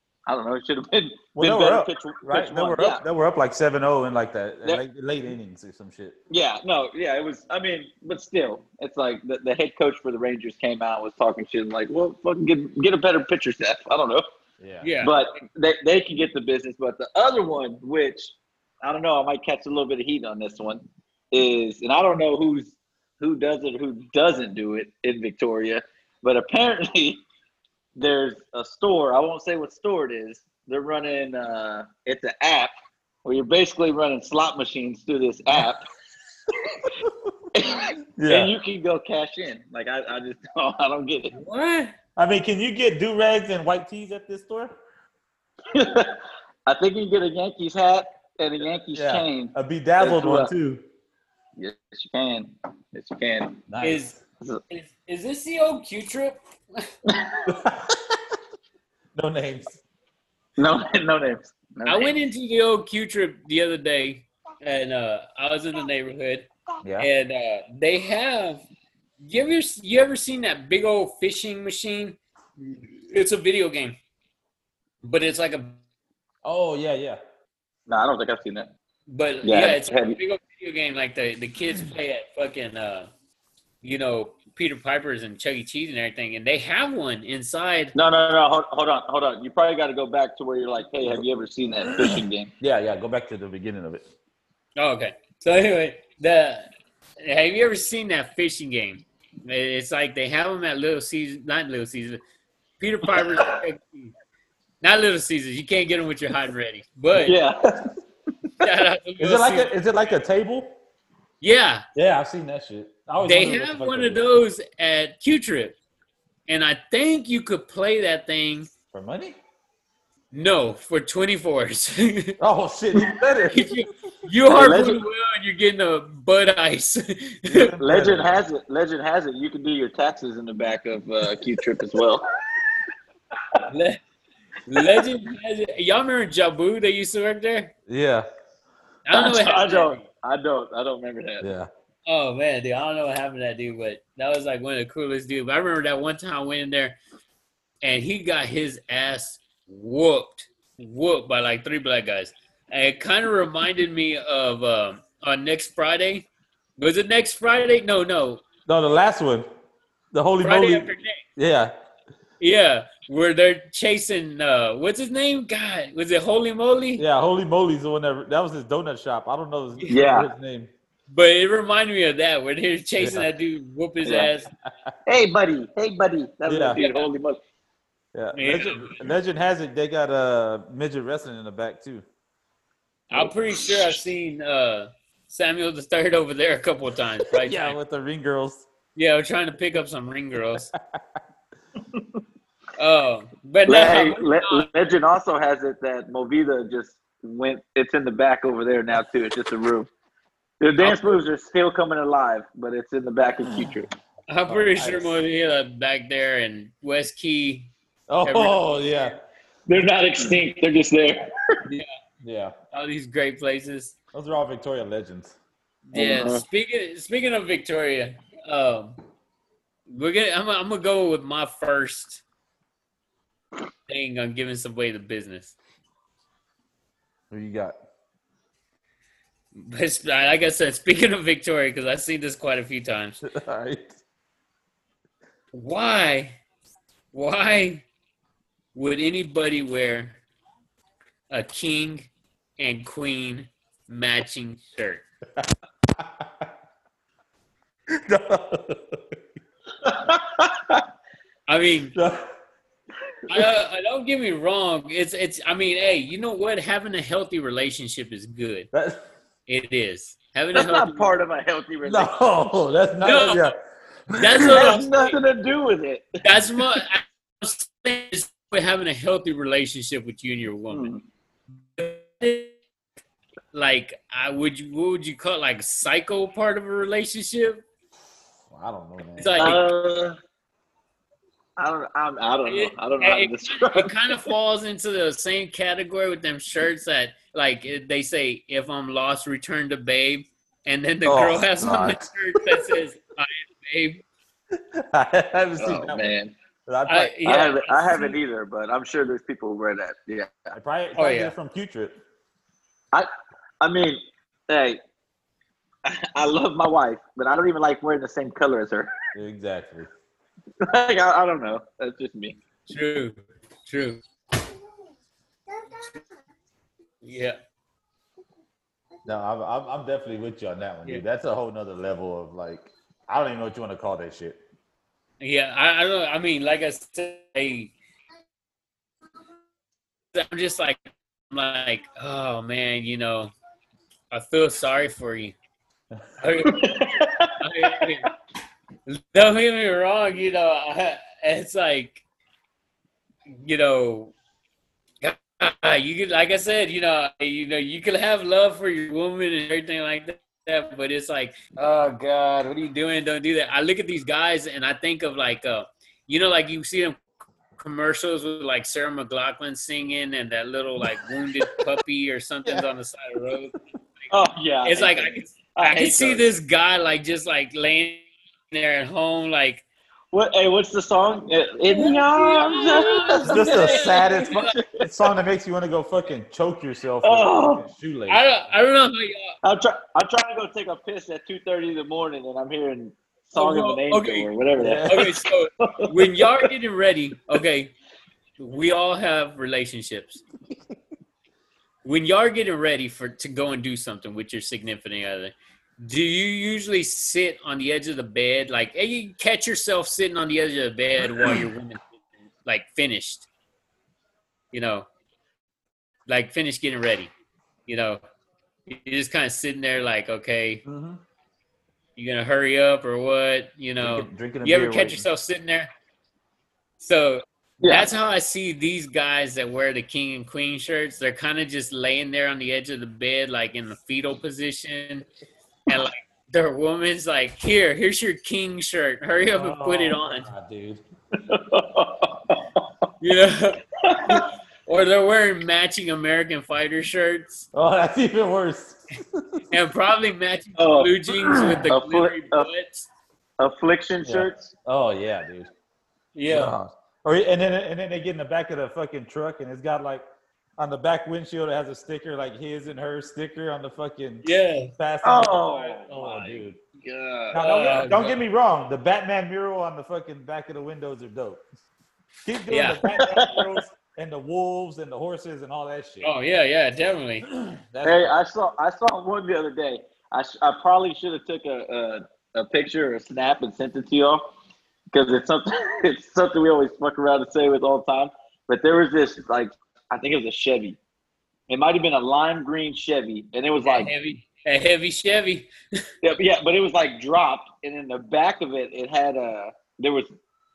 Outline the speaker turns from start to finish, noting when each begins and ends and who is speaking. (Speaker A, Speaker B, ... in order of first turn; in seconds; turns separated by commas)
Speaker A: 0.3-3.0, Speaker B: 1.4-6.2, Speaker A: 6.3-14.3, Speaker B: 14.6-14.9, Speaker C: 14.8-15.2, Speaker A: 15.0-27.2, Speaker A: 28.0-32.7, Speaker A: 33.2-35.9, Speaker A: 37.5-41.4, Speaker B: 38.2-38.5, Speaker C: 41.3-42.0, Speaker B: 42.2-44.8, Speaker A: 45.7-50.5, Speaker B: 48.9-50.8, Speaker A: 51.6-53.6, Speaker B: 53.7-54.2, Speaker C: 53.8-54.2, Speaker C: 54.7-56.9, Speaker A: 57.1-57.6, Speaker B: 57.5-58.2, Speaker B: 59.1-59.8, Speaker A: 60.6-62.1, Speaker C: 61.9-68.6, Speaker B: 66.8-67.1, Speaker C: 69.2-74.0, Speaker C: 75.0-75.8, Speaker B: 76.4-77.2, Speaker A: 77.9-78.7, Speaker C: 79.1-83.1, Speaker A: 79.5-80.2, Speaker C: 83.8-87.9, Speaker A: 88.0-92.5, Speaker B: 92.0-94.1, Speaker C: 94.8-102.2, Speaker C: 102.8-104.1, Speaker A: 103.2-103.5, Speaker C: 104.8-107.4, Speaker A: 107.2-107.9, Speaker C: 108.6-109.7, Speaker B: 109.2-110.8, Speaker C: 111.4-111.8, Speaker B: 112.0-114.2, Speaker C: 113.2-115.8, Speaker C: 116.5-118.7, Speaker B: 118.9-119.4, Speaker C: 120.3-122.4, Speaker B: 122.4-123.7, Speaker C: 123.5-127.8, Speaker A: 124.5-125.0, Speaker B: 127.5-128.3, Speaker A: 127.8-132.3, Speaker C: 133.7-134.0, Speaker C: 134.7-137.7, Speaker B: 137.9-138.3, Speaker C: 139.1-140.0, Speaker A: 139.1-141.5, Speaker B: 141.4-141.7, Speaker C: 142.1-147.0, Speaker C: 147.8-156.3, Speaker C: 156.8-158.4, Speaker B: 158.7-159.5, Speaker B: 160.1-161.7, Speaker C: 160.4-161.2, Speaker C: 162.4-167.1, Speaker B: 167.0-170.7, Speaker A: 169.9-170.3, Speaker C: 171.1-174.5, Speaker B: 173.0-173.3, Speaker B: 174.7-174.9, Speaker A: 175.1-177.4, Speaker B: 176.5-176.8, Speaker C: 176.8-177.1, Speaker B: 178.1-182.1, Speaker C: 178.3-179.1, Speaker C: 183.1-187.8, Speaker B: 187.4-188.7, Speaker C: 189.0-190.7, Speaker C: 192.8-194.7, Speaker A: 193.7-199.9, Speaker A: 200.6-203.9, Speaker C: 200.8-201.2, Speaker B: 203.4-203.7, Speaker C: 204.3-207.7, Speaker B: 204.5-205.2, Speaker B: 208.1-209.2, Speaker C: 208.2-209.1, Speaker A: 209.7-211.3, Speaker C: 211.7-212.0, Speaker B: 212.2-212.5, Speaker C: 212.7-213.9, Speaker B: 214.1-215.3, Speaker C: 215.9-219.0, Speaker A: 215.9-216.4, Speaker C: 219.9-222.2, Speaker C: 223.9-225.6, Speaker B: 227.3-227.8, Speaker C: 229.5-233.2, Speaker B: 233.2-234.0, Speaker C: 235.5-236.4, Speaker C: 237.1-237.9, Speaker C: 238.7-240.2, Speaker C: 241.3-245.1, Speaker B: 245.4-246.5, Speaker B: 247.9-249.2, Speaker C: 251.5-251.9, Speaker B: 251.9-252.3, Speaker C: 253.3-258.7, Speaker B: 258.7-259.0, Speaker C: 259.5-261.1, Speaker A: 260.5-262.6, Speaker B: 261.8-263.6, Speaker C: 263.0-263.5, Speaker B: 264.1-264.7, Speaker C: 264.2-265.2, Speaker A: 264.4-266.2, Speaker C: 266.2-270.9, Speaker A: 270.7-271.0, Speaker C: 271.8-272.5, Speaker C: 273.5-277.6, Speaker B: 278.5-279.6, Speaker C: 279.2-279.6, Speaker A: 279.4-280.2, Speaker A: 281.6-284.2, Speaker C: 282.5-294.0, Speaker B: 291.1-292.1, Speaker B: 294.6-296.1, Speaker A: 295.6-296.3, Speaker B: 296.7-297.1, Speaker C: 296.9-298.2, Speaker A: 297.2-300.5, Speaker B: 300.5-302.0, Speaker C: 301.0-301.3, Speaker A: 303.6-304.8, Speaker A: 305.9-308.9, Speaker B: 309.1-309.9, Speaker A: 310.6-312.4, Speaker C: 312.7-314.0, Speaker C: 317.0-317.4, Speaker B: 319.1-324.4, Speaker C: 325.2-327.7, Speaker C: 330.1-330.8, Speaker C: 331.3-333.3, Speaker C: 334.1-335.4, Speaker C: 336.2-336.8, Speaker A: 336.5-337.9, Speaker C: 337.4-338.1, Speaker C: 338.9-342.0, Speaker C: 343.4-344.1, Speaker C: 345.0-357.0, Speaker C: 357.6-363.5, Speaker A: 364.1-366.3, Speaker C: 364.6-369.6, Speaker A: 370.1-374.8, Speaker C: 371.7-374.6, Speaker B: 373.2-378.3, Speaker A: 377.0-377.7, Speaker C: 378.1-379.3, Speaker A: 379.4-386.5, Speaker C: 383.4-384.3, Speaker B: 384.6-385.1, Speaker C: 384.9-387.7, Speaker C: 388.4-390.2, Speaker C: 391.8-401.8, Speaker C: 402.4-403.3, Speaker C: 404.5-404.9, Speaker C: 406.1-407.1, Speaker C: 407.7-408.0, Speaker C: 408.7-410.6, Speaker B: 410.7-411.0, Speaker C: 412.0-415.7, Speaker B: 413.8-415.1, Speaker C: 416.8-425.1, Speaker A: 417.6-417.9, Speaker C: 425.7-430.3, Speaker B: 429.3-430.8, Speaker A: 431.3-432.6, Speaker C: 433.0-437.5, Speaker A: 433.8-434.3, Speaker B: 437.5-439.4, Speaker C: 439.5-442.9, Speaker A: 440.6-442.5, Speaker A: 443.4-444.5, Speaker B: 444.1-445.5, Speaker C: 446.1-446.6, Speaker B: 446.3-450.0, Speaker B: 450.6-456.6, Speaker C: 454.2-454.7, Speaker A: 455.0-457.5, Speaker B: 457.3-461.4, Speaker C: 457.4-458.2, Speaker B: 462.2-466.1, Speaker C: 462.5-462.8, Speaker A: 462.9-463.5, Speaker C: 466.0-467.3, Speaker B: 467.2-468.1, Speaker A: 467.8-474.2, Speaker A: 474.9-480.8, Speaker A: 481.5-483.9, Speaker C: 483.6-485.5, Speaker A: 486.0-490.1